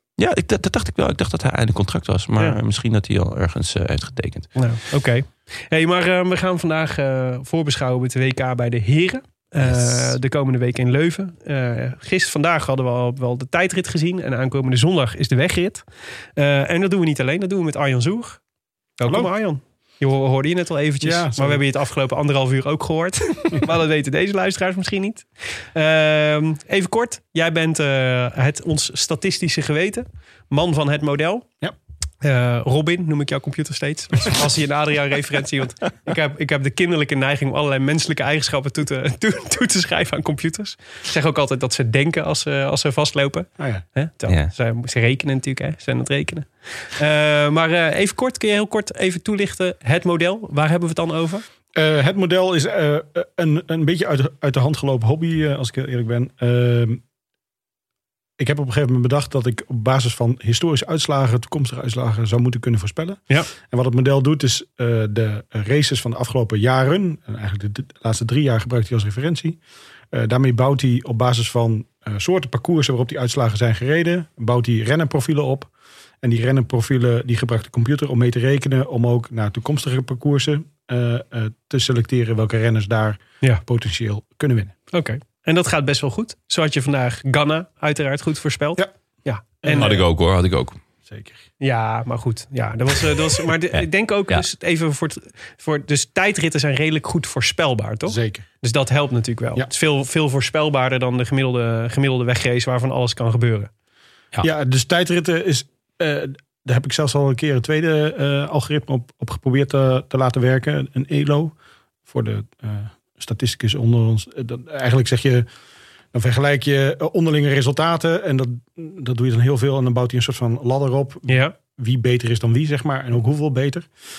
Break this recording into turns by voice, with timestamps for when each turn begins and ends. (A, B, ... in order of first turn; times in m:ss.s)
0:00.2-0:04.5 A
0:04.6-0:15.8 B
0:09.7-0:10.1 A
0:16.4-0:18.4 B
0:19.0-0:31.5 B
0:21.0-0:21.6 C
0:32.2-0:51.4 B
0:44.3-0:44.5 A
0:51.8-0:57.0 C
0:58.4-1:09.6 C
1:10.1-1:15.7 C
1:16.2-1:24.7 C
1:24.9-1:30.0 B
1:29.6-1:30.0 C
1:29.7-1:30.8 A
1:31.1-1:31.4 C
1:31.6-1:43.7 B
1:33.7-1:34.4 A
1:38.1-1:38.4 C
1:44.4-1:51.6 C
1:52.1-1:55.5 C
1:56.1-2:03.9 C
2:01.3-2:01.6 B